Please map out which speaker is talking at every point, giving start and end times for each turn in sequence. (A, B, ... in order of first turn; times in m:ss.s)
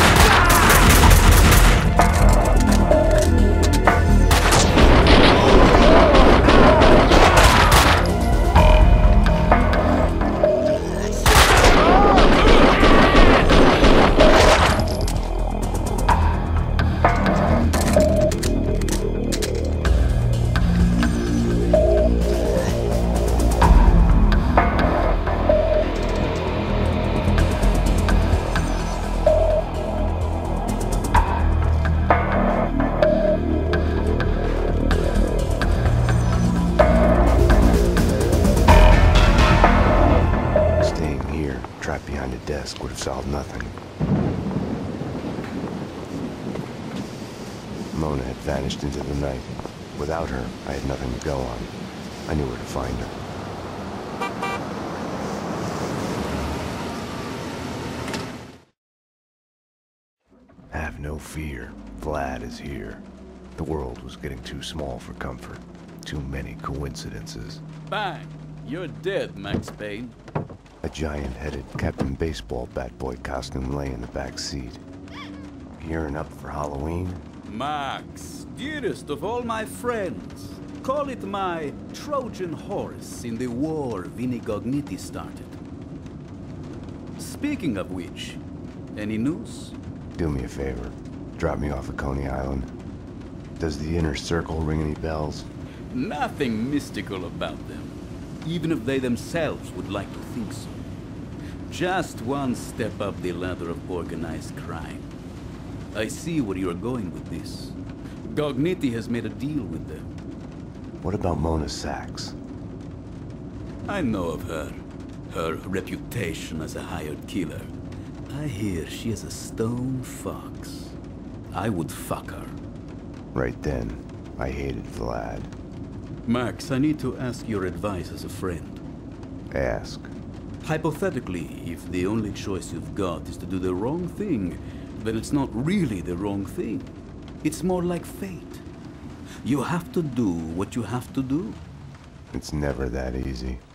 0:40.8-0:43.8 A
0:47.9-0:51.7 A
0:52.3-0:53.1 A
1:00.7-1:03.0 A
1:03.6-1:07.6 A
1:07.9-1:10.2 B
1:10.8-1:14.8 A
1:15.8-1:17.2 A
1:17.4-1:25.6 B
1:27.2-1:28.4 B
1:28.9-1:29.8 B
1:30.2-1:32.7 A
1:33.6-1:35.5 A
1:35.9-1:40.7 B
1:41.7-1:45.0 B
1:45.9-1:50.1 B
1:51.0-1:52.4 A
1:53.9-1:57.7 B
1:58.3-2:00.9 B
2:01.5-2:02.6 B
2:03.3-2:05.5 A
2:06.2-2:08.8 B
2:09.5-2:10.1 A
2:10.6-2:18.6 B
2:19.4-2:21.6 B
2:22.3-2:23.6 A